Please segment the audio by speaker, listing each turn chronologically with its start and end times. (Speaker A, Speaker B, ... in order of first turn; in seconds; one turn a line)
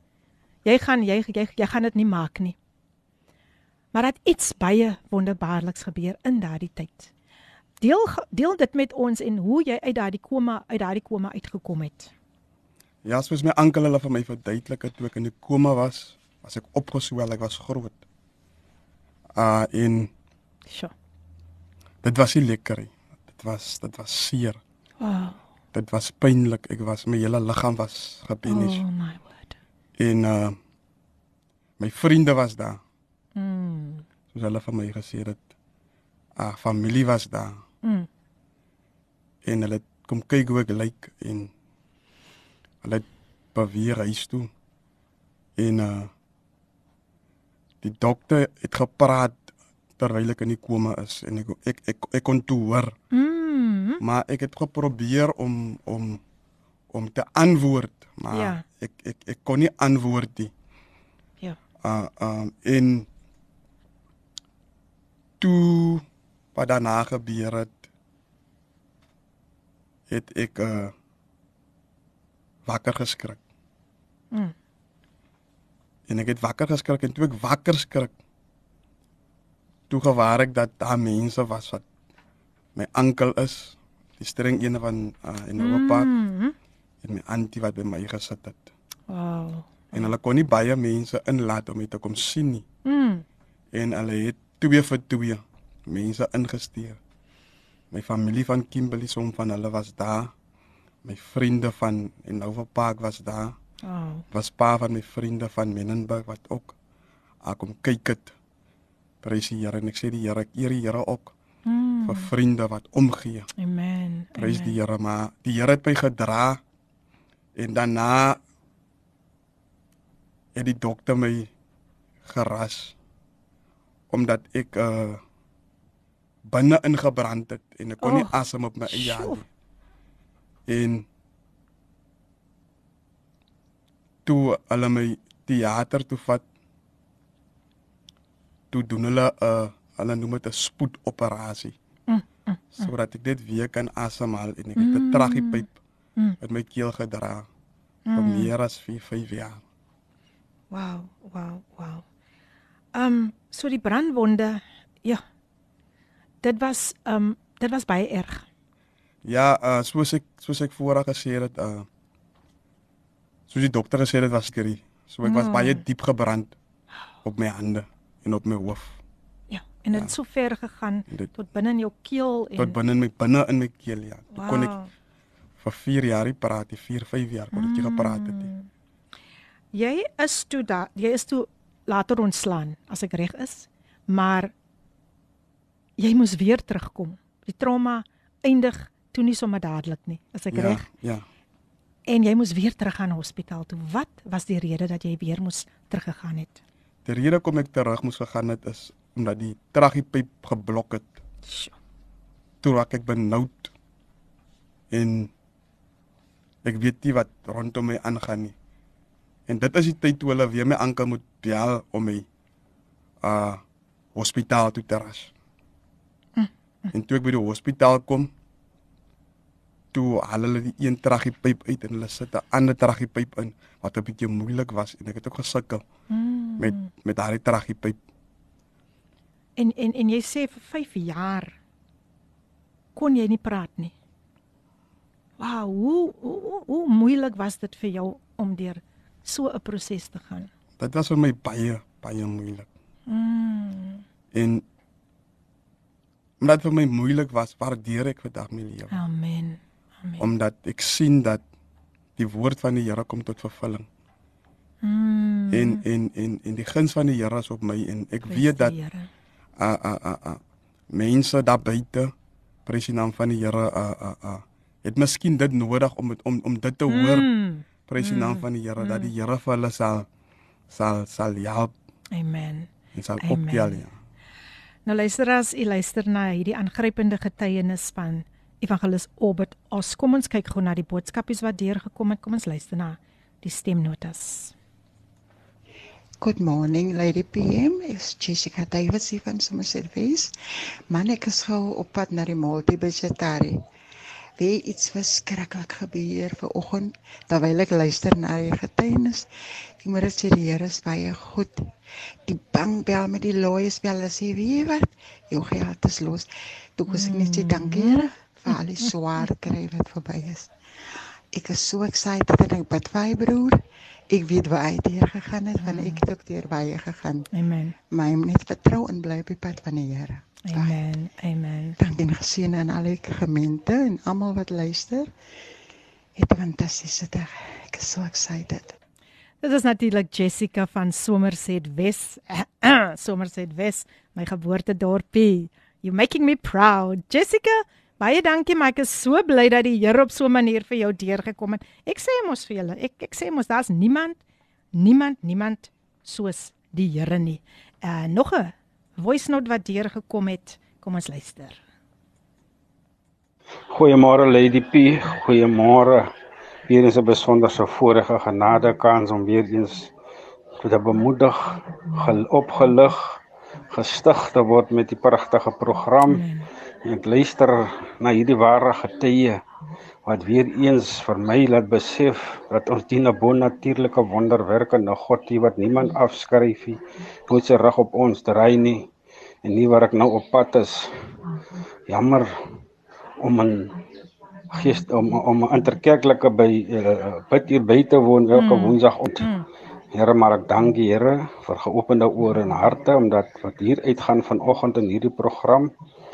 Speaker A: 0.7-2.6
Speaker A: 3.9-7.1
Speaker A: 7.8-12.1
Speaker B: 13.1-18.0
Speaker B: 19.4-20.1
Speaker B: 22.0-24.6
Speaker A: 25.0-25.4
Speaker B: 25.7-28.8
Speaker A: 28.4-29.6
Speaker B: 30.0-30.6
Speaker B: 31.8-32.8
Speaker A: 33.4-34.0
Speaker B: 34.3-35.4
Speaker B: 36.4-37.6
Speaker B: 39.4-41.5
Speaker B: 42.8-44.5
Speaker B: 45.6-46.1
Speaker B: 47.8-49.5
Speaker B: 50.0-53.0
Speaker A: 53.1-54.0
Speaker B: 54.0-56.2
Speaker B: 56.9-60.5
Speaker A: 58.3-58.6
Speaker B: 61.8-63.1
Speaker B: 65.4-66.0
Speaker B: 66.5-67.8
Speaker B: 70.1-70.9
Speaker B: 72.7-73.4
Speaker B: 76.1-78.1
Speaker B: 79.9-81.8
Speaker B: 82.8-86.1
Speaker A: 85.6-86.5
Speaker B: 87.0-88.7
Speaker A: 89.1-90.1
Speaker B: 89.9-92.7
Speaker A: 92.9-93.2
Speaker B: 93.7-97.0
Speaker B: 97.9-100.3
Speaker B: 101.0-103.6
Speaker A: 103.8-104.2
Speaker B: 104.3-106.7
Speaker B: 107.4-108.3
Speaker B: 109.2-111.3
Speaker A: 111.7-112.3
Speaker B: 112.0-113.5
Speaker A: 113.6-114.8
Speaker B: 114.4-116.6
Speaker B: 117.6-118.4
Speaker B: 120.5-121.5
Speaker B: 122.2-123.0
Speaker B: 124.1-125.2
Speaker B: 126.5-129.4
Speaker A: 128.0-128.4
Speaker A: 128.9-129.4
Speaker B: 130.7-131.1
Speaker B: 134.3-136.4
Speaker B: 138.7-141.8
Speaker A: 142.1-142.9
Speaker B: 142.8-145.7
Speaker A: 144.8-145.7
Speaker B: 146.4-147.5
Speaker A: 148.1-148.5
Speaker B: 148.1-149.6
Speaker A: 150.7-152.0
Speaker A: 152.9-155.2
Speaker A: 156.4-158.5
Speaker B: 159.2-161.9
Speaker B: 163.5-166.6
Speaker A: 165.2-165.8
Speaker B: 167.2-169.0
Speaker A: 169.5-172.8
Speaker B: 172.6-174.8
Speaker A: 174.3-174.9
Speaker B: 175.6-178.5
Speaker A: 177.5-178.7
Speaker A: 179.7-184.5
Speaker A: 186.0-190.9
Speaker B: 190.5-191.3
Speaker A: 192.1-196.6
Speaker B: 197.1-201.1
Speaker A: 201.4-201.7
Speaker B: 202.6-203.7
Speaker B: 204.9-205.3
Speaker B: 206.6-208.5
Speaker B: 209.5-212.3
Speaker B: 213.2-213.6
Speaker B: 214.2-215.3
Speaker B: 216.9-218.3
Speaker B: 219.9-225.8
Speaker A: 226.1-226.9
Speaker B: 226.6-228.0
Speaker A: 229.6-231.6
Speaker A: 233.0-233.9
Speaker A: 235.4-240.5
Speaker B: 240.8-242.7
Speaker A: 243.1-244.0
Speaker B: 244.3-244.7
Speaker B: 246.4-249.0
Speaker A: 248.9-250.3
Speaker B: 250.2-251.4
Speaker B: 252.2-253.9
Speaker A: 254.8-255.8
Speaker B: 255.5-258.8
Speaker A: 258.3-259.1
Speaker B: 259.6-262.1
Speaker B: 262.7-267.3
Speaker A: 266.9-269.1
Speaker B: 267.9-270.1
Speaker B: 270.7-271.7
Speaker A: 272.1-273.8
Speaker B: 272.9-273.9
Speaker A: 274.9-284.5
Speaker C: 286.2-290.3
Speaker C: 290.9-293.6
Speaker C: 294.4-299.3
Speaker C: 299.8-301.7
Speaker C: 302.2-310.5
Speaker A: 306.9-308.9
Speaker C: 311.3-317.3
Speaker A: 315.6-316.0
Speaker A: 317.3-317.8
Speaker C: 317.9-320.8
Speaker A: 320.4-321.8
Speaker C: 321.8-325.1
Speaker C: 326.2-328.8
Speaker A: 329.4-344.2
Speaker A: 344.8-351.6
Speaker D: 353.7-356.1
Speaker D: 356.7-359.9
Speaker D: 360.6-363.0
Speaker D: 363.7-366.3
Speaker A: 366.1-366.4
Speaker D: 366.9-369.4
Speaker D: 370.1-378.9
Speaker D: 379.4-380.8
Speaker D: 381.9-382.3
Speaker D: 383.2-383.7
Speaker D: 384.5-389.3
Speaker A: 388.4-389.4
Speaker D: 389.9-395.7